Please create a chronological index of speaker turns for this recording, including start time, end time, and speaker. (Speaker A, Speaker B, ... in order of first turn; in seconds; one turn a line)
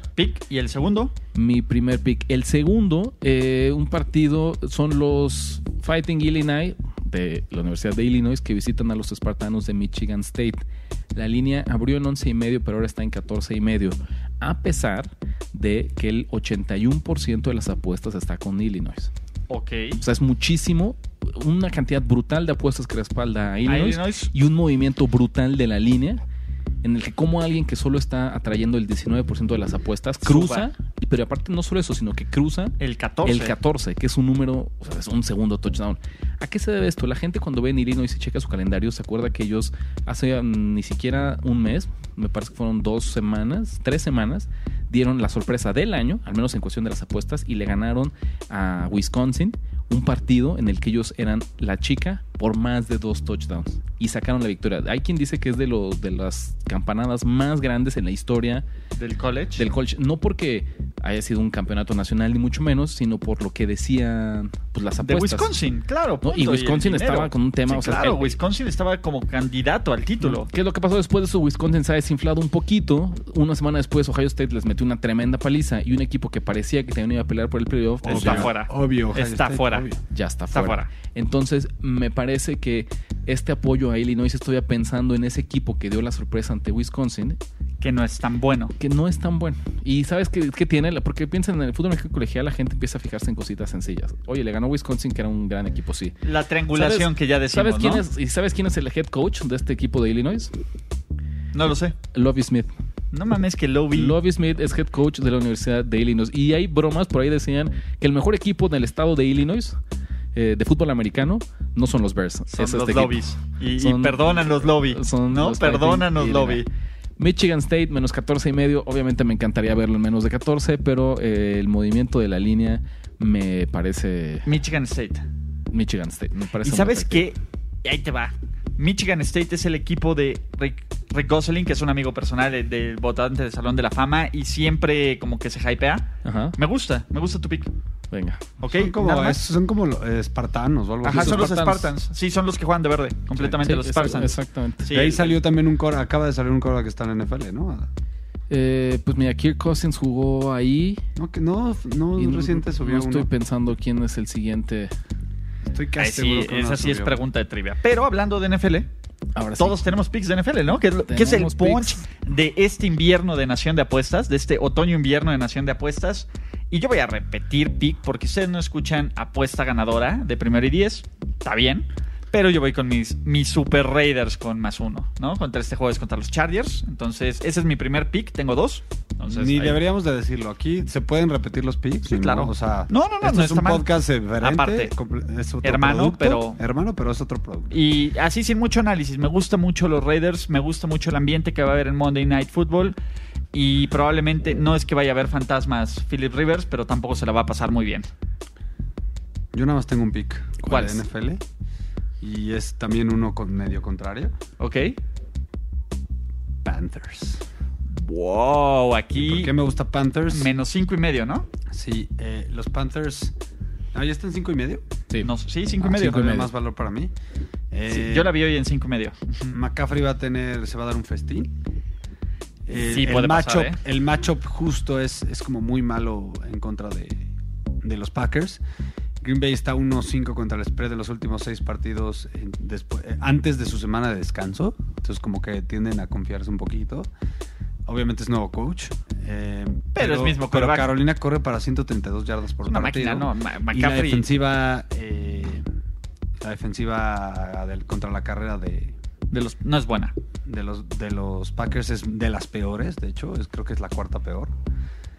Speaker A: 0.2-1.1
Speaker B: 1.4-19.1
Speaker A: 19.5-20.0
Speaker B: 20.0-26.2
Speaker A: 23.7-24.3
Speaker B: 26.8-58.7
Speaker A: 30.2-30.7
Speaker A: 32.8-33.5
Speaker A: 59.0-59.6
Speaker B: 59.6-65.5
Speaker A: 65.0-70.5
Speaker B: 66.2-68.4
Speaker B: 70.2-78.5
Speaker C: 78.0-80.0
Speaker A: 78.1-79.9
Speaker B: 80.1-87.4
Speaker A: 80.5-80.9
Speaker A: 87.8-88.7
Speaker B: 88.8-96.2
Speaker A: 96.2-98.0
Speaker B: 96.7-100.5
Speaker A: 101.5-102.0
Speaker B: 102.1-102.7
Speaker A: 103.1-104.2
Speaker B: 103.9-109.8
Speaker B: 110.3-113.2
Speaker A: 112.5-116.7
Speaker B: 113.8-116.6
Speaker B: 117.2-124.5
Speaker A: 124.5-125.2
Speaker B: 125.7-127.3
Speaker A: 126.6-137.7
Speaker B: 136.2-136.6
Speaker B: 138.1-138.6
Speaker A: 138.6-139.4
Speaker C: 138.7-141.5
Speaker A: 141.0-145.4
Speaker B: 141.1-141.9
Speaker B: 143.4-144.9
Speaker C: 144.9-147.9
Speaker B: 148.5-151.0
Speaker C: 151.2-153.3
Speaker B: 152.2-154.9
Speaker C: 155.6-157.2
Speaker A: 156.0-158.9
Speaker B: 159.4-159.8
Speaker A: 159.6-179.8
Speaker B: 161.1-162.0
Speaker C: 179.3-187.8
Speaker A: 182.1-183.9
Speaker A: 184.4-184.9
Speaker A: 185.6-186.6
Speaker A: 187.7-193.0
Speaker A: 193.5-198.1
Speaker C: 199.5-201.4
Speaker A: 200.7-201.0
Speaker C: 202.2-204.3
Speaker A: 204.6-205.0
Speaker C: 206.6-207.4
Speaker A: 207.9-209.5
Speaker C: 209.2-210.5
Speaker A: 210.3-211.5
Speaker C: 211.7-213.3
Speaker C: 213.9-214.8
Speaker B: 215.1-216.5
Speaker A: 215.2-216.2
Speaker C: 215.9-217.1
Speaker C: 217.7-218.3
Speaker A: 217.9-219.6
Speaker C: 219.5-221.5
Speaker C: 222.7-227.3
Speaker A: 222.8-223.8
Speaker C: 227.8-228.6
Speaker C: 229.2-237.1
Speaker C: 237.9-245.7
Speaker A: 240.0-240.9
Speaker A: 242.7-244.3
Speaker C: 246.4-249.0
Speaker A: 249.3-250.1
Speaker C: 250.5-254.5